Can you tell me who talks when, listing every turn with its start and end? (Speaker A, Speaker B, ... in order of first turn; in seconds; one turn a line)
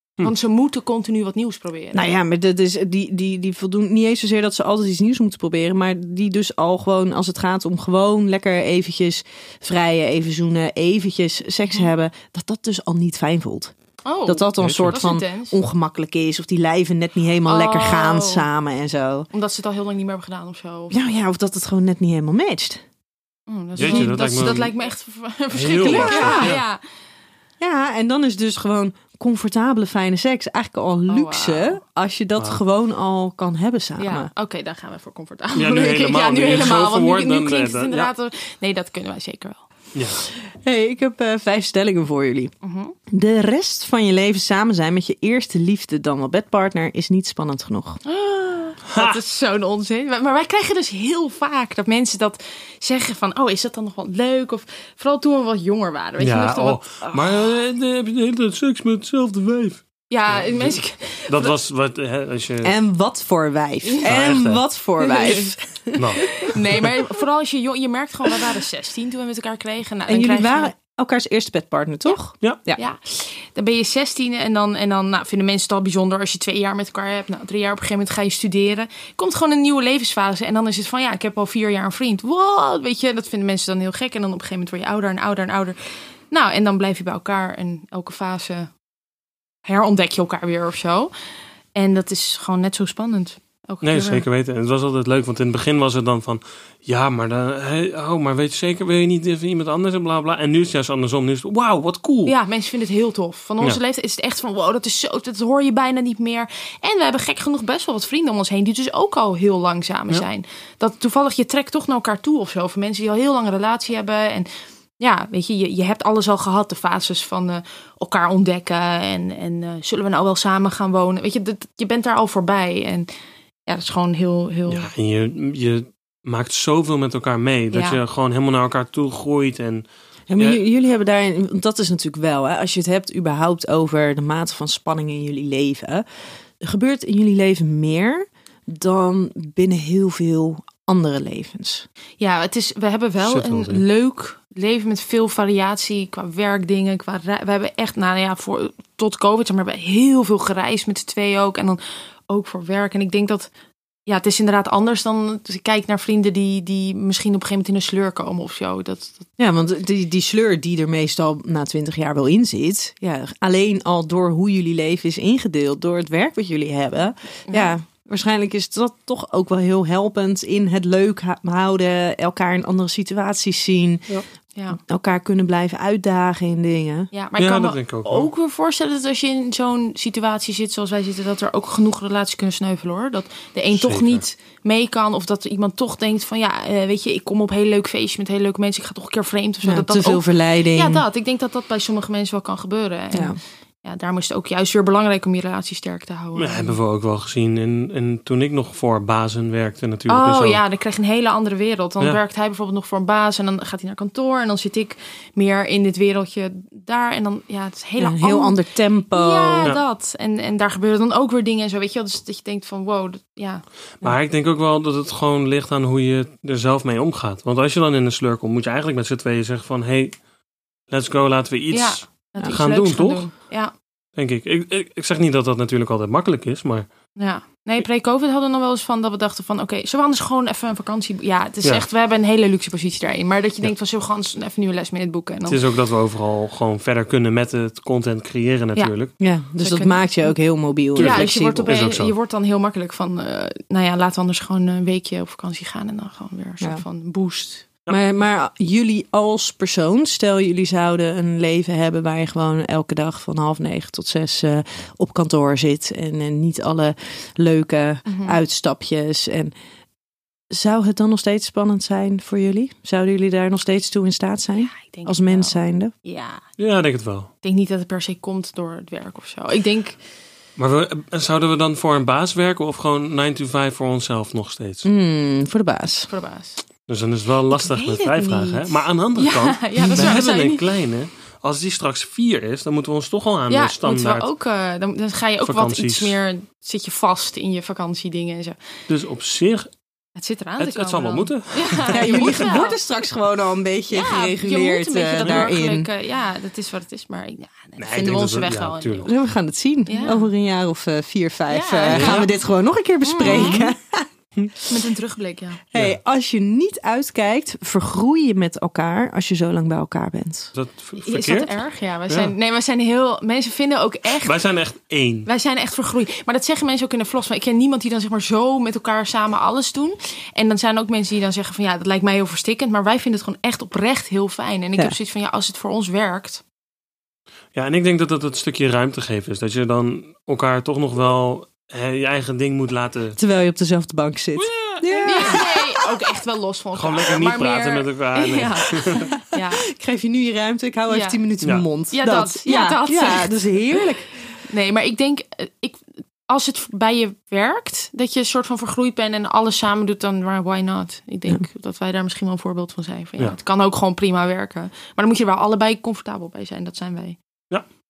Speaker A: 0.2-2.1
Speaker B: 1.9-13.7
Speaker A: 14.0-15.6
Speaker B: 14.3-19.3
Speaker C: 14.6-14.9
Speaker A: 17.4-18.5
Speaker A: 19.3-21.0
Speaker B: 20.9-22.8
Speaker A: 23.5-26.8
Speaker C: 23.8-24.7
Speaker B: 23.8-24.1
Speaker C: 25.5-26.6
Speaker B: 25.8-26.6
Speaker B: 27.6-34.3
Speaker A: 31.1-31.8
Speaker A: 34.0-39.6
Speaker C: 35.5-38.1
Speaker C: 40.0-40.2
Speaker B: 40.5-42.5
Speaker A: 42.6-43.0
Speaker B: 43.1-48.0
Speaker A: 48.0-57.3
Speaker C: 48.9-49.2
Speaker C: 56.2-62.8
Speaker A: 60.1-61.5
Speaker B: 62.6-66.5
Speaker C: 64.0-64.6
Speaker A: 65.0-65.5
Speaker C: 66.0-66.9
Speaker A: 66.4-70.7
Speaker B: 70.1-72.8
Speaker A: 72.8-88.7
Speaker A: 89.7-91.1
Speaker A: 91.8-94.2
Speaker C: 93.8-102.3
Speaker A: 102.2-123.1
Speaker A: 123.7-124.9
Speaker C: 124.7-130.6
Speaker A: 127.7-128.0
Speaker B: 130.3-136.1
Speaker B: 136.6-141.9
Speaker A: 142.2-153.5
Speaker C: 143.2-143.8
Speaker A: 154.1-159.3
Speaker B: 159.4-174.1
Speaker A: 167.5-167.7
Speaker B: 174.7-177.1
Speaker A: 177.1-196.8
Speaker C: 177.4-178.3
Speaker C: 183.7-184.2
Speaker B: 189.6-191.0
Speaker B: 193.1-193.4
Speaker C: 196.4-200.6
Speaker A: 200.1-208.6
Speaker B: 208.0-209.7
Speaker A: 209.1-213.7
Speaker C: 214.0-220.2
Speaker C: 220.9-223.3
Speaker A: 221.7-223.7
Speaker C: 224.2-226.9
Speaker A: 227.2-235.6
Speaker C: 235.5-239.1
Speaker B: 239.2-241.8
Speaker A: 239.6-240.4
Speaker A: 240.9-247.7
Speaker C: 240.9-242.1
Speaker B: 247.9-259.5
Speaker A: 258.1-258.4
Speaker B: 260.5-265.9
Speaker A: 264.6-266.4
Speaker C: 266.6-267.3
Speaker A: 267.4-270.0
Speaker C: 270.6-274.9
Speaker B: 274.8-276.1
Speaker A: 276.1-276.6
Speaker C: 276.9-284.3
Speaker A: 277.5-280.6
Speaker B: 279.8-280.1
Speaker A: 283.5-288.6
Speaker C: 285.4-286.2
Speaker C: 288.9-289.7
Speaker A: 290.2-292.8
Speaker C: 290.6-292.5
Speaker B: 291.9-295.9
Speaker A: 293.9-299.1
Speaker C: 295.2-295.5
Speaker C: 297.8-299.1
Speaker B: 299.0-304.1
Speaker A: 299.9-300.3
Speaker A: 301.5-302.3
Speaker C: 301.9-302.3
Speaker A: 303.0-303.7
Speaker C: 303.2-303.7
Speaker A: 304.7-305.6
Speaker B: 305.7-310.5
Speaker C: 310.6-311.5
Speaker A: 311.0-314.4
Speaker C: 312.1-312.3
Speaker C: 314.2-315.3
Speaker A: 315.3-326.4
Speaker C: 327.6-333.2
Speaker B: 333.2-335.6
Speaker C: 334.4-335.3
Speaker A: 335.1-339.7
Speaker C: 336.8-339.1
Speaker B: 339.4-344.2
Speaker A: 340.9-341.2
Speaker A: 341.9-343.8
Speaker A: 344.4-357.2